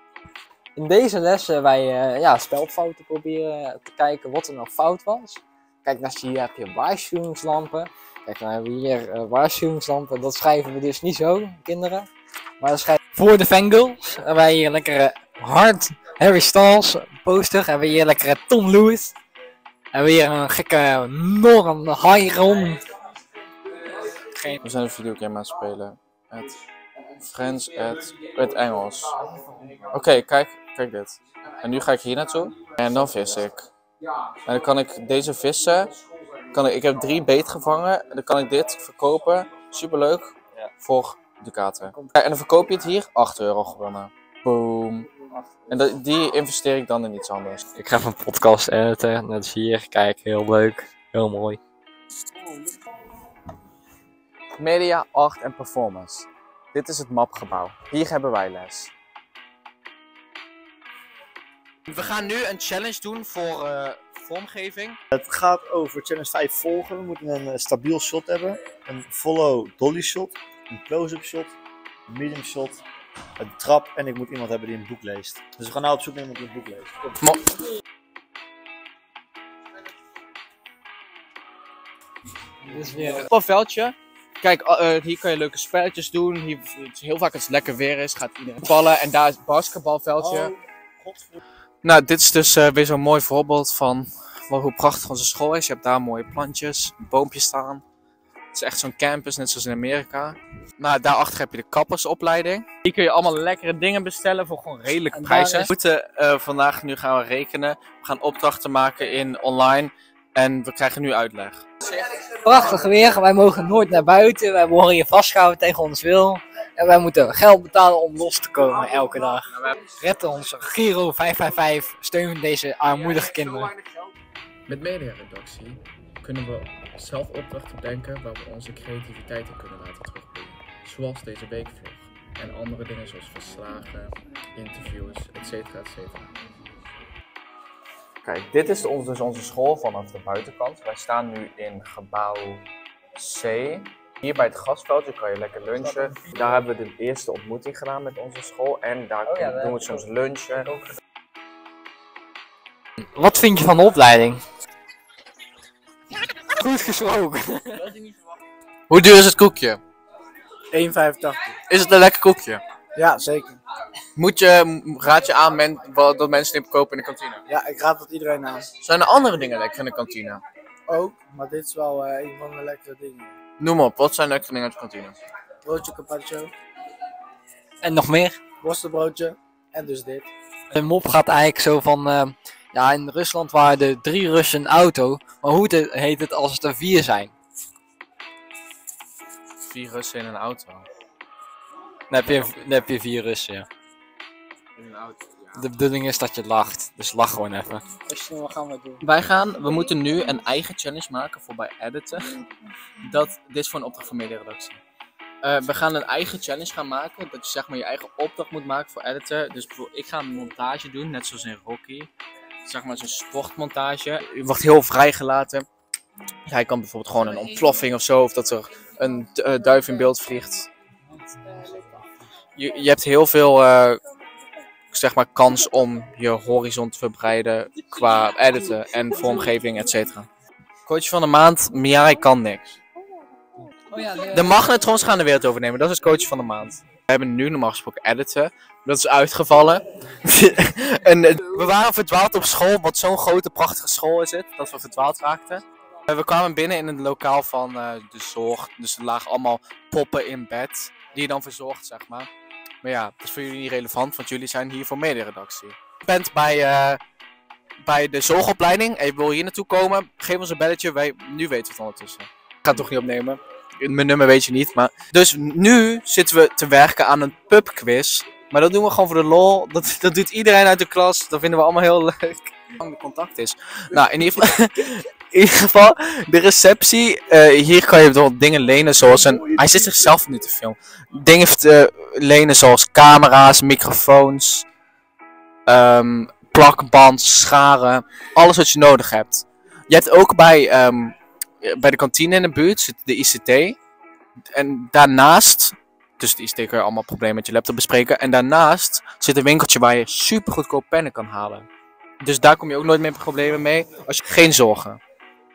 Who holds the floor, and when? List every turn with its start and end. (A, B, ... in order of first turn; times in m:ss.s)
0:00.8-0:12.1 A
0:12.6-0:19.2 A
0:19.9-0:22.8 A
0:23.9-0:24.6 A
0:24.6-0:26.6 B
0:27.2-0:29.2 B
0:29.9-0:33.7 B
0:34.4-0:47.7 B
0:41.8-0:42.1 A
0:47.7-0:51.6 A
0:54.6-0:58.9 B
1:01.9-1:05.0 B
1:05.1-1:11.6 C
1:12.1-1:12.8 C
1:13.4-1:17.2 C
1:22.7-1:23.2 A
1:23.2-1:30.5 B
1:30.2-1:31.4 C
1:31.8-1:37.8 B
1:38.5-1:51.6 B
1:45.1-1:45.7 A
1:51.9-2:03.8 A
2:04.7-2:16.3 B
2:18.2-2:30.7 B
2:29.2-2:30.9 A
2:33.1-2:34.4 A
2:36.1-2:38.0 A
2:38.9-2:39.8 B
2:40.7-2:41.5 D
2:41.6-2:42.6 B
2:42.9-2:43.6 D
2:44.2-2:47.4 B
2:47.5-2:48.7 D
2:48.8-2:50.4 B
2:50.9-2:53.3 D
2:53.6-2:55.2 B
2:55.6-2:56.5 D
2:57.8-2:58.4 A
2:58.6-3:00.3 D
3:00.7-3:07.3 A
3:09.6-3:10.8 B
3:12.1-3:13.7 A
3:14.8-3:15.7 B
3:15.6-3:19.0 A
3:19.0-3:22.3 B
3:23.0-3:24.8 B
3:25.4-3:32.1 B
3:32.6-3:35.6 B
3:36.4-3:40.7 B
3:42.6-3:44.0 B
3:44.9-3:50.3 B
3:50.8-3:52.8 B
3:53.9-3:54.6 A
3:54.3-4:12.3 B
4:12.8-4:17.0 B
4:17.8-4:44.6 B
4:45.6-4:53.8 B
4:54.5-5:01.7 B
5:02.2-5:05.0 B